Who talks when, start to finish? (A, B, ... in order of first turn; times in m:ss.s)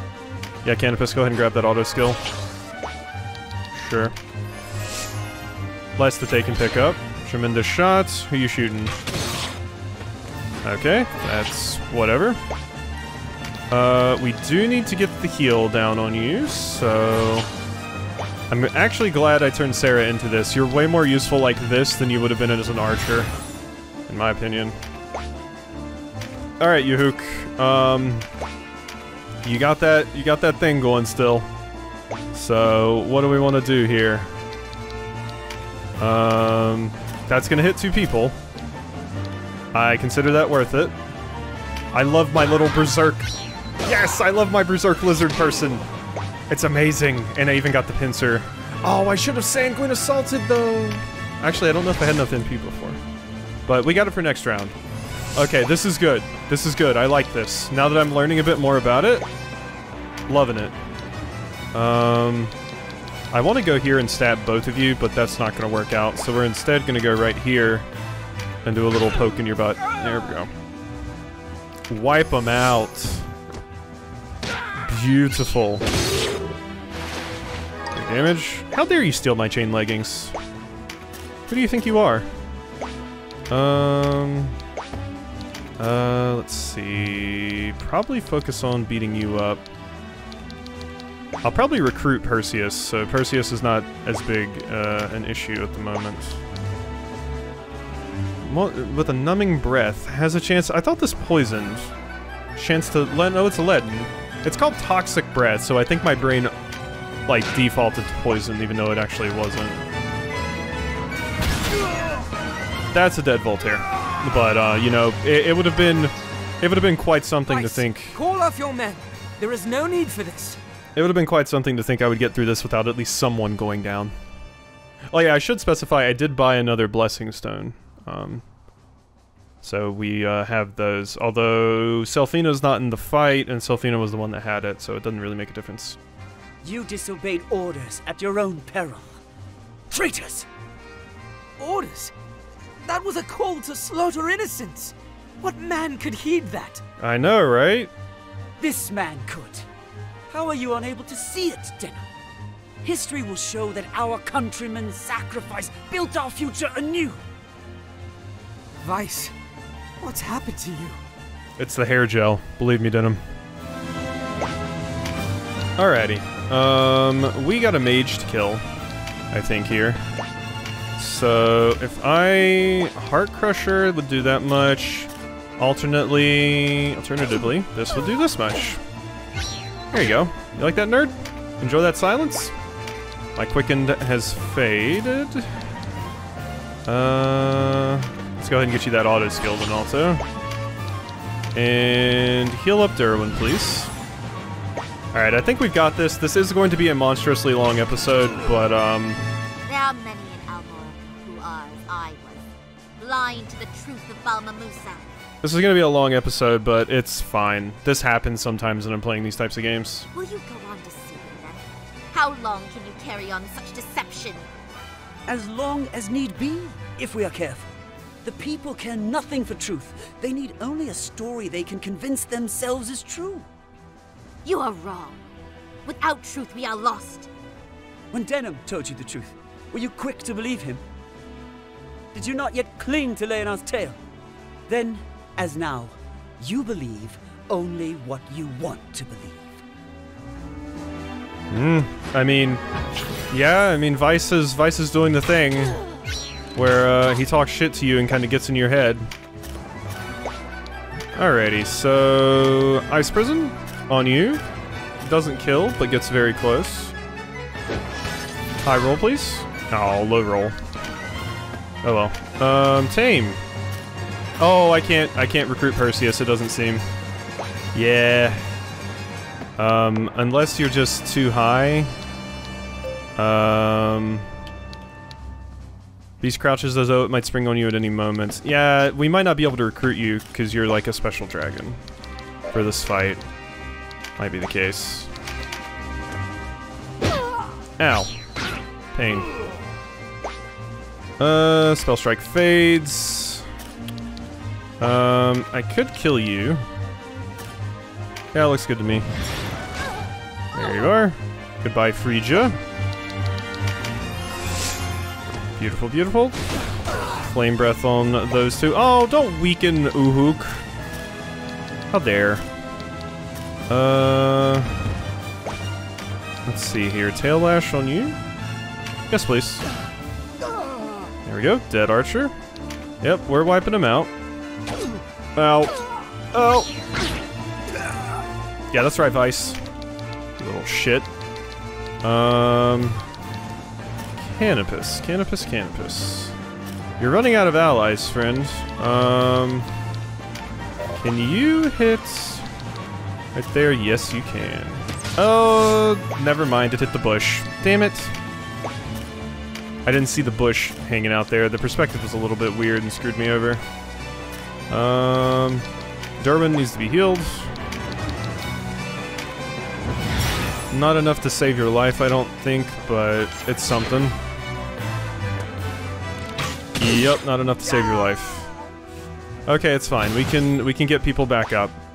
0:00.6-0:02.2 A
0:03.7-0:04.1 A
0:06.0-0:09.0 A
0:10.6-0:12.4 A
0:13.7-0:17.5 A
0:18.5-0:23.3 A
0:24.1-0:24.8 A
0:26.6-0:28.3 A
0:29.4-0:31.5 A
0:32.3-0:34.3 A
0:36.0-0:38.4 A
0:39.7-0:40.9 A
0:41.9-0:43.3 A
0:43.8-0:45.8 A
0:46.5-0:53.0 A
0:53.7-0:54.8 A
0:55.4-0:59.3 A
1:00.3-1:00.7 A
1:01.7-1:02.5 A
1:03.3-1:07.9 A
1:08.6-1:10.5 A
1:11.9-1:13.3 A
1:14.8-1:15.8 A
1:17.9-1:20.4 A
1:21.5-1:22.3 A
1:23.5-1:24.6 A
1:25.8-1:29.6 A
1:31.4-1:36.4 A
1:38.4-1:41.9 A
1:42.5-1:46.5 A
1:47.3-1:49.8 A
1:52.9-1:58.2 A
1:57.4-2:00.6 B
2:01.0-2:04.1 A
2:05.1-2:08.4 A
2:09.6-2:16.0 A
2:16.6-2:19.2 C
2:19.9-2:20.5 C
2:21.6-2:22.1 B
2:22.8-2:26.8 B
2:27.0-2:27.9 A
2:28.6-2:29.7 C
2:30.3-2:32.0 C
2:32.8-2:37.2 C
2:38.8-2:39.3 B
2:40.0-2:41.0 B
2:41.6-2:43.2 A
2:45.8-2:48.6 A
2:49.3-2:50.0 A
2:51.0-2:58.8 A
2:59.9-3:02.5 A
3:03.4-3:05.5 A
3:06.8-3:10.2 A
3:11.5-3:13.9 A
3:15.1-3:19.2 A
3:19.7-3:22.5 D
3:23.0-3:25.2 D
3:25.4-3:30.1 A
3:30.1-3:34.5 D
3:35.3-3:37.7 C
3:38.2-3:43.5 C
3:44.4-3:45.3 D
3:45.8-3:47.3 D
3:48.1-3:50.8 C
3:52.1-3:54.0 C
3:54.7-3:59.6 C
4:01.5-4:02.6 A
4:03.3-4:05.8 A
4:06.5-4:09.1 A
4:11.1-4:14.4 A
4:15.0-4:16.9 A
4:18.6-4:20.6 A
4:21.8-4:23.4 A
4:24.4-4:26.8 A
4:27.7-4:28.4 A
4:29.6-4:31.9 A
4:33.2-4:34.3 A
4:36.2-4:41.8 A
4:42.5-4:43.2 A
4:44.2-4:45.1 A
4:47.8-4:48.1 A
4:48.9-4:49.3 A
4:51.2-4:53.4 A
4:54.8-4:56.6 A
4:58.3-4:59.1 A
5:00.5-5:02.6 A
5:05.5-5:06.4 A
5:07.2-5:10.6 A
5:11.9-5:12.4 A
5:13.7-5:14.7 A
5:16.4-5:18.2 A
5:19.1-5:19.6 A
5:21.2-5:22.3 A
5:23.0-5:24.1 A
5:25.4-5:25.8 A
5:26.3-5:26.7 A
5:28.7-5:29.6 A
5:30.4-5:31.1 A
5:32.0-5:33.0 A
5:34.2-5:36.3 A
5:37.0-5:39.7 A
5:40.9-5:42.5 A
5:43.3-5:48.1 A
5:49.8-5:53.6 A
5:54.7-5:55.6 A
5:56.2-5:57.5 A
6:00.7-6:04.2 A
6:06.8-6:08.5 A
6:09.5-6:11.7 A